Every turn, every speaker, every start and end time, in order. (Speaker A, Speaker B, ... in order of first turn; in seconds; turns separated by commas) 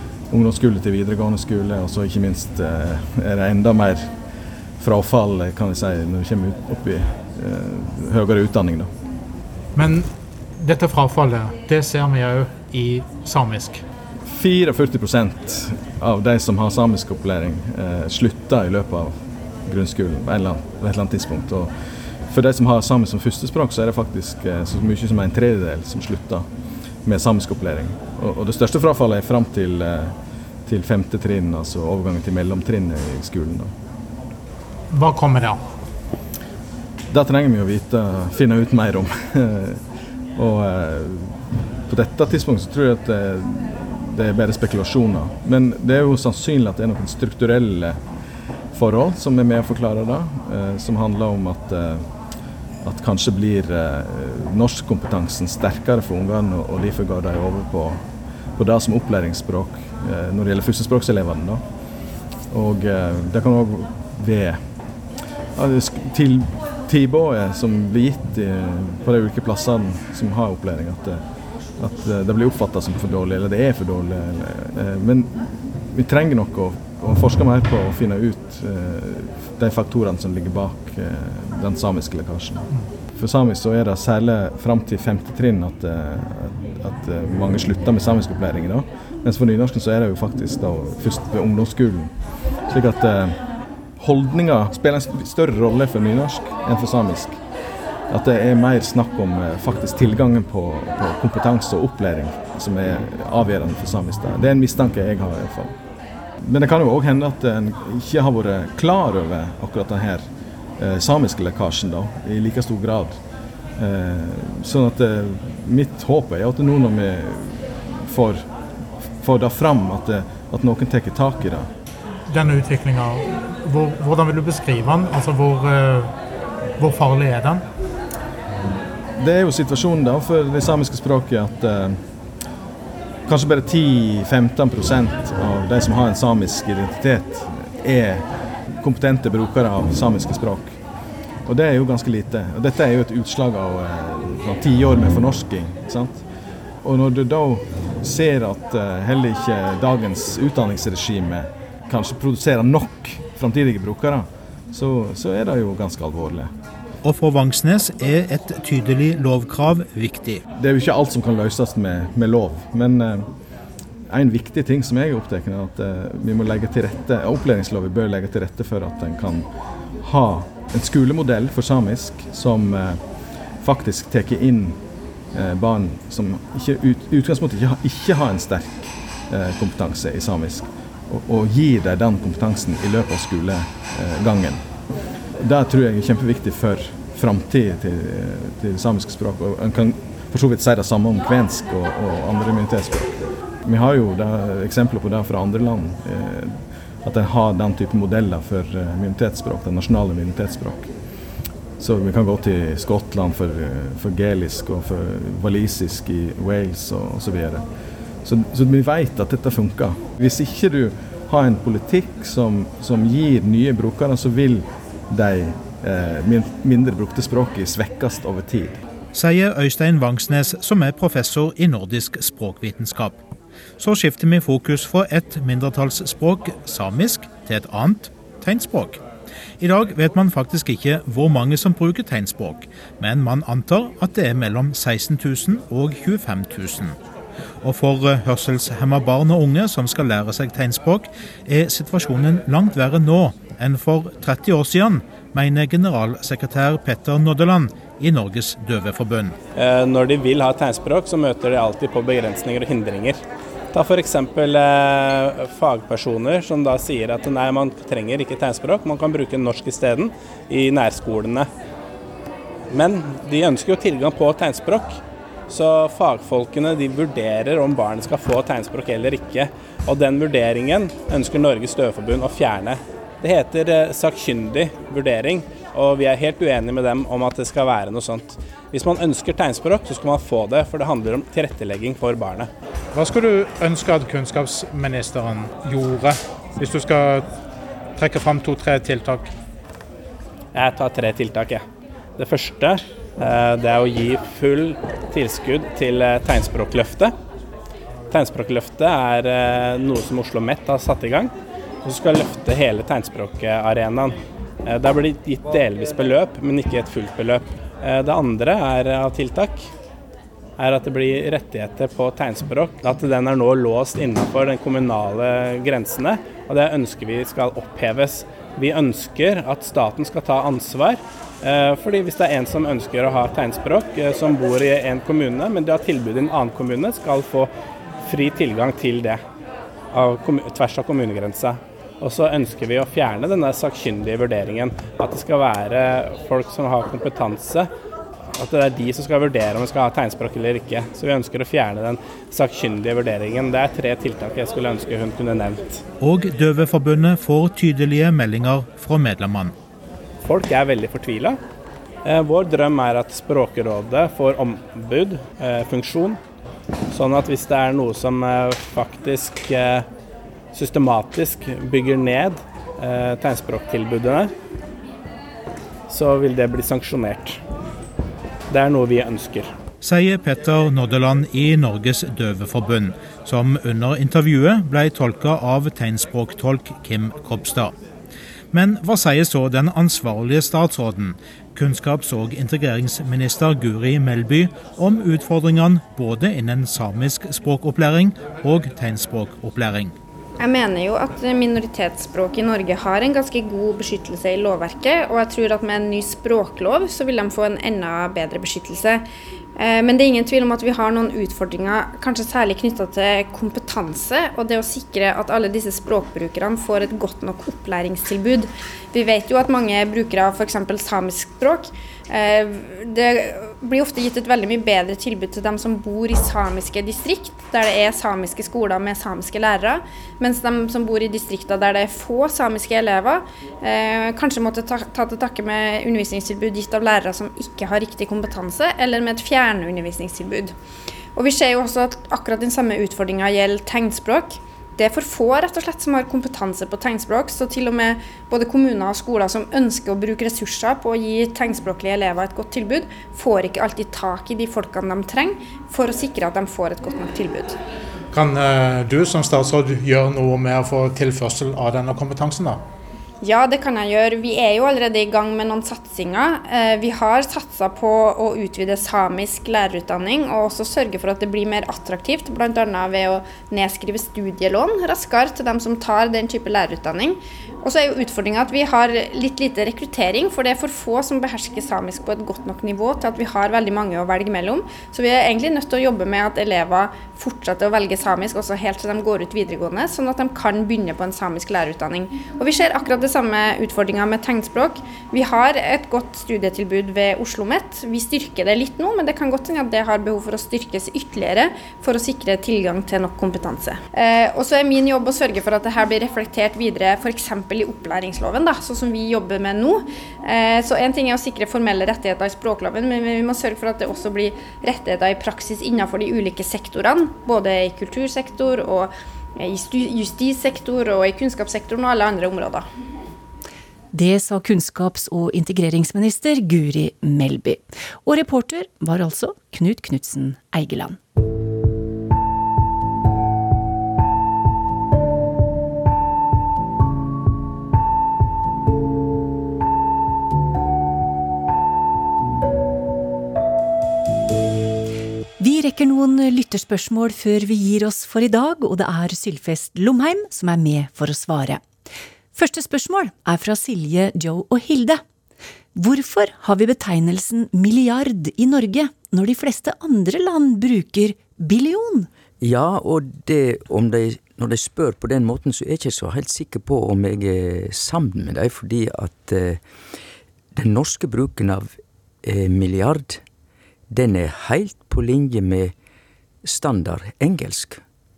Speaker A: 0.3-4.1, Speaker A: 4.8-8.9, Speaker B: 9.7-13.8, Speaker A: 14.2-19.1, Speaker A: 19.6-21.7, Speaker A: 22.3-26.4, Speaker A: 27.0-30.1, Speaker A: 30.6-33.7, Speaker B: 34.9-35.6, Speaker A: 37.1-39.8, Speaker A: 40.3-48.0, Speaker A: 48.7-52.1, Speaker A: 52.8-58.0, Speaker A: 58.5-61.6, Speaker A: 62.5-64.6, Speaker A: 65.5-71.2, Speaker A: 71.8-92.1, Speaker A: 92.7-93.4, Speaker A: 94.0-97.4, Speaker A: 98.1-105.8, Speaker A: 106.4-110.2, Speaker A: 110.8-113.2, Speaker A: 113.8-118.4, Speaker A: 119.2-121.7, Speaker B: 122.3-126.1, Speaker B: 126.8-127.6, Speaker A: 129.2-132.0, Speaker A: 133.2-140.8, Speaker A: 141.4-146.2, Speaker A: 146.8-156.5, Speaker C: 157.0-160.4, Speaker A: 160.6-163.3, Speaker A: 164.1-169.5, Speaker A: 170.0-173.0, Speaker A: 173.6-174.8, Speaker A: 175.3-184.6, Speaker A: 185.4-200.9, Speaker A: 201.8-207.6, Speaker A: 208.2-218.8, Speaker C: 219.1-223.2, Speaker C: 223.8-229.0, Speaker C: 229.6-237.0, Speaker C: 237.6-249.3, Speaker D: 249.5-253.2, Speaker D: 253.7-261.5, Speaker D: 262.7-282.5, Speaker B: 282.9-287.3, Speaker B: 287.9-289.3, Speaker D: 290.5-291.6, Speaker D: 292.2-297.1, Speaker D: 298.1-301.3, Speaker D: 301.8-309.7, Speaker D: 310.6-327.5, Speaker D: 328.0-329.2, Speaker D: 329.9-337.7, Speaker D: 338.3-345.8, Speaker C: 346.0-349.5, Speaker D: 350.2-351.4, Speaker D: 352.0-356.2, Speaker D: 356.9-359.9, Speaker D: 360.5-364.3, Speaker D: 365.9-367.4, Speaker D: 368.5-369.5, Speaker C: 369.8-377.7, Speaker C: 378.5-389.9, Speaker E: 390.4-399.0, Speaker E: 399.6-430.5, Speaker E: 431.1-447.6, Speaker B: 448.1-452.6, Speaker E: 453.2-512.6, Speaker F: 513.9-521.0, Speaker F: 535.4-541.6, Speaker F: 542.3-545.0, Speaker F: 545.7-552.1, Speaker G: 552.4-559.6, Speaker G: 560.5-563.2, Speaker G: 563.9-565.7, Speaker G: 566.4-567.8